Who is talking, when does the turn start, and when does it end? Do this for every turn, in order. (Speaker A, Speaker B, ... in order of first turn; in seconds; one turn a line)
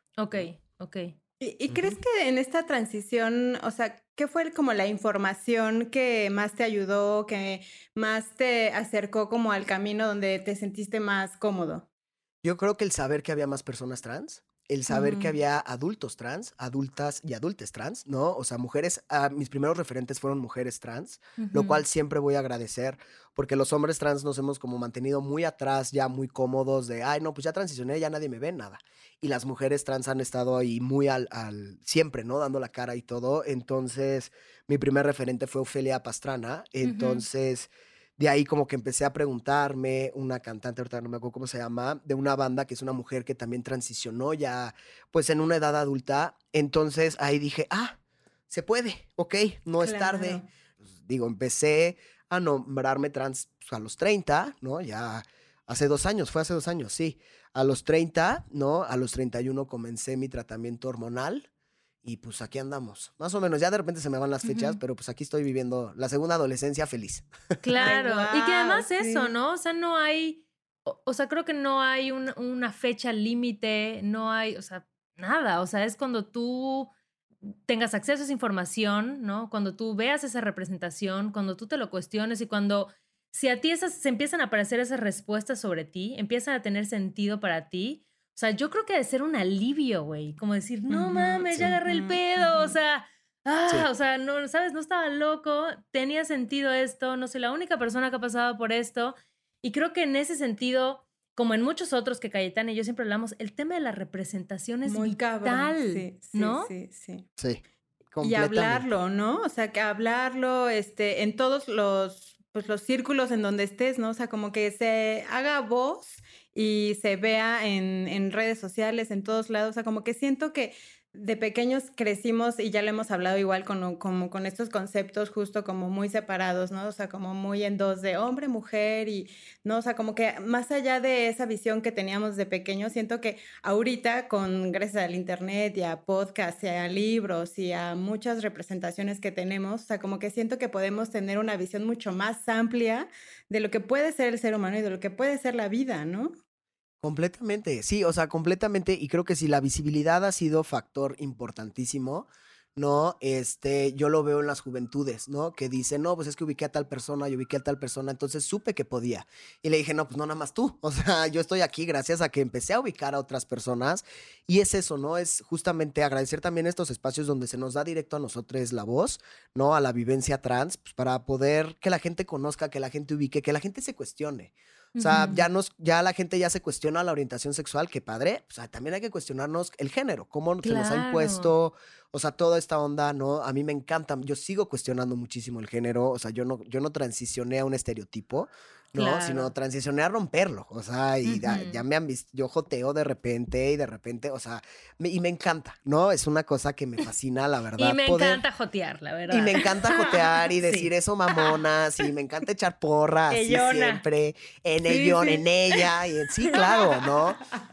Speaker A: 0.2-1.1
Speaker B: 1.4-11.8
Speaker C: 1.7-2.0
Speaker C: 12.4-48.0
Speaker B: 14.9-15.3
Speaker A: 21.4-21.8
Speaker A: 36.8-37.2
Speaker C: 48.5-61.5
Speaker B: 49.8-50.5
Speaker C: 62.0-67.3
Speaker A: 64.4-64.8
Speaker A: 67.6-76.9
Speaker B: 67.8-69.3
Speaker A: 77.7-106.7
Speaker B: 90.9-92.8
Speaker B: 104.8-107.3
Speaker C: 107.4-108.8
Speaker B: 108.2-146.3
Speaker C: 147.0-198.4
Speaker A: 175.0-175.5
Speaker A: 180.6-181.5
Speaker A: 188.9-189.5
Speaker A: 191.2-191.8
Speaker A: 197.8-199.7
Speaker C: 199.3-207.4
Speaker A: 200.6-200.9
Speaker A: 203.3-204.0
Speaker B: 204.9-205.4